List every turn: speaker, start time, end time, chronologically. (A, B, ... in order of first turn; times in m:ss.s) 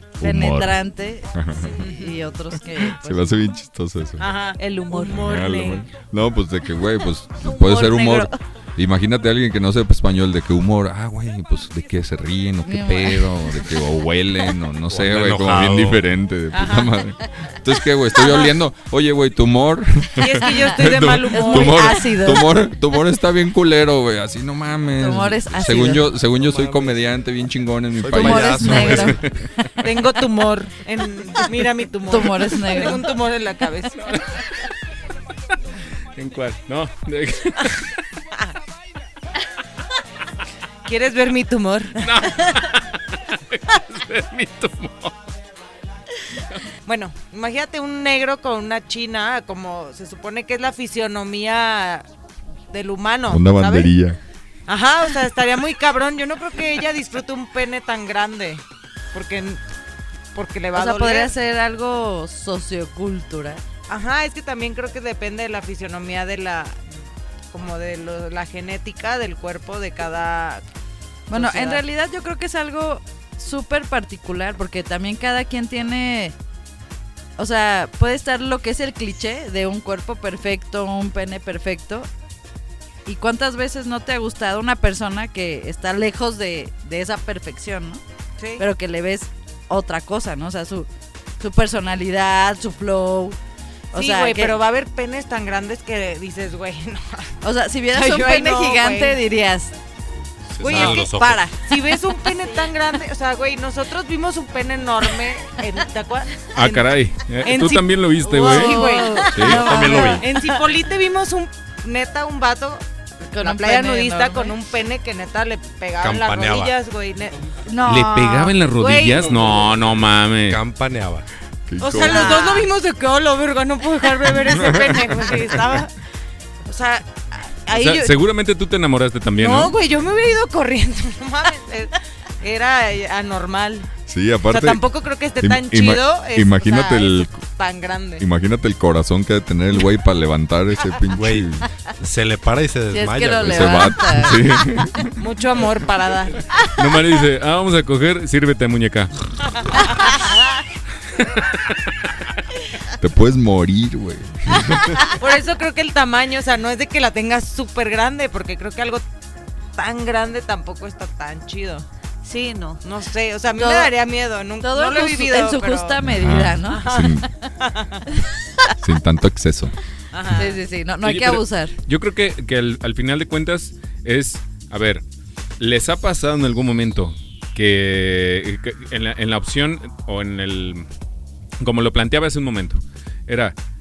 0:00.2-0:00.8 A
0:00.2-0:03.4 B
0:01.3-0:01.8 A
0:01.8-0:02.1 C
0:02.8-0:04.3 A
0:04.2-0:05.9 C
0:04.6-0:05.3 D
0:04.9-0:29.1 A
0:07.4-0:08.4 D
0:12.6-0:13.4 B
0:14.9-0:16.0 E
0:16.5-0:17.0 C
0:20.2-0:22.0 C
0:21.3-0:22.6 B
0:25.0-0:26.0 B
0:26.4-0:26.9 E
0:28.0-0:29.2 E
0:28.1-0:29.2 B
0:29.8-0:34.2 C
0:32.1-0:33.0 B
0:34.0-0:34.4 F
0:36.2-0:38.0 F
0:40.8-0:42.2 C
0:42.0-0:45.1 F
0:46.8-0:52.1 C
0:52.7-0:53.9 C
0:53.3-0:54.2 A
0:54.7-0:59.6 C
1:00.3-1:01.3 C
1:00.7-1:03.6 B
1:03.9-1:06.8 C
1:07.5-1:10.6 C
1:11.3-1:16.4 B
1:11.3-1:11.8 C
1:17.4-1:22.1 B
1:23.0-1:28.0 B
1:28.4-1:28.6 C
1:28.6-1:30.9 B
1:31.4-1:33.4 B
1:33.9-1:34.6 B
1:33.9-1:37.3 C
1:37.4-1:39.7 B
1:37.9-1:39.2 C
1:40.5-1:41.5 E
1:40.6-1:46.9 C
1:40.6-1:41.7 B
1:46.5-1:50.0 F
1:47.4-1:52.8 C
1:48.3-1:50.3 B
1:49.3-1:50.3 E
1:53.3-1:54.6 B
1:53.4-1:57.4 C
1:56.0-1:56.7 E
1:57.7-1:58.5 B
1:57.8-2:00.6 F
1:58.4-1:59.3 C
2:00.5-2:01.2 E
2:01.7-2:02.4 A
2:01.8-2:05.9 C
2:04.4-2:05.8 A
2:06.6-2:08.2 C
2:07.7-2:09.7 F
2:09.4-2:13.9 C
2:14.0-2:14.8 A
2:14.5-2:18.2 C
2:15.4-2:17.4 A
2:18.2-2:21.7 A
2:21.1-2:23.9 E
2:22.9-2:24.6 B
2:23.4-2:25.2 A
2:25.2-2:26.4 C
2:26.6-2:30.0 F
2:31.2-2:31.9 F
2:32.9-2:35.1 A
2:35.1-2:39.0 C
2:39.8-2:41.8 C
2:42.2-2:42.8 D
2:42.8-2:46.0 C
2:43.6-2:43.9 B
2:44.6-2:47.3 B
2:46.0-2:47.3 A
2:46.6-2:48.0 C
2:48.8-2:49.7 A
2:50.1-2:50.6 C
2:50.4-2:51.7 B
2:51.0-2:55.0 F
2:55.6-3:00.9 F
3:01.6-3:03.5 F